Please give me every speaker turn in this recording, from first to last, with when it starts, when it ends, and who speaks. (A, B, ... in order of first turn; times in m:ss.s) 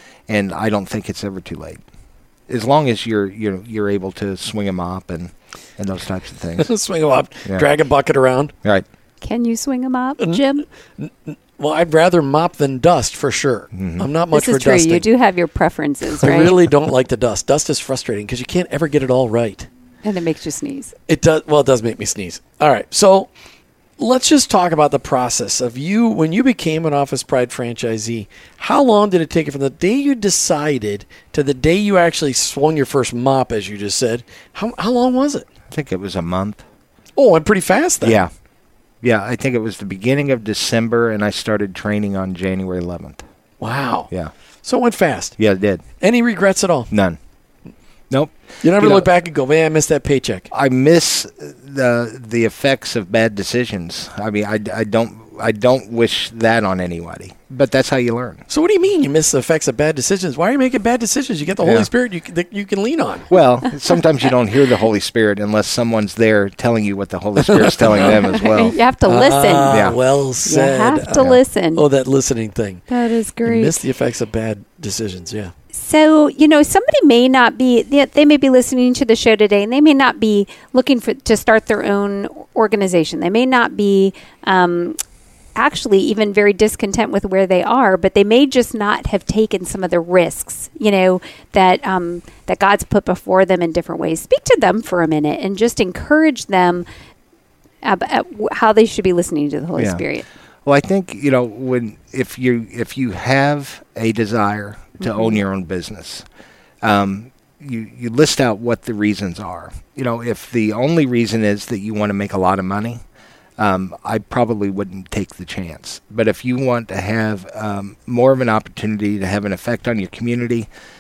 0:00.3-0:01.8 A
0:02.5-0:06.7 A
0:06.6-0:08.5 B
0:09.2-0:10.6 C
0:11.0-0:15.1 B
0:13.7-0:14.1 A
0:14.3-0:16.5 C
0:16.2-0:19.7 B
0:20.0-0:20.9 C
0:21.1-0:23.3 B
0:24.0-0:35.4 B
0:35.7-0:36.6 A
0:37.2-0:38.2 B
0:38.0-0:38.3 A
0:39.0-0:43.2 A
0:43.6-0:44.1 B
0:44.6-0:45.4 B
0:45.4-0:45.8 A
0:46.0-0:46.9 B
0:46.9-0:47.2 A
0:48.1-0:49.1 A
0:48.6-0:50.5 B
0:50.5-0:58.4 A
0:58.5-1:03.3 B
1:01.6-1:01.9 A
1:03.3-1:08.8 A
1:07.4-1:08.2 B
1:08.1-1:09.8 C
1:09.0-1:12.9 B
1:09.7-1:10.0 A
1:10.4-1:11.8 C
1:12.9-1:13.7 C
1:13.4-1:15.5 B
1:15.7-1:25.0 C
1:25.6-1:36.9 C
1:37.8-1:40.2 C
1:39.8-1:40.0 A
1:40.6-1:46.2 A
1:45.0-1:45.4 C
1:46.8-1:53.0 A
1:53.6-2:00.7 A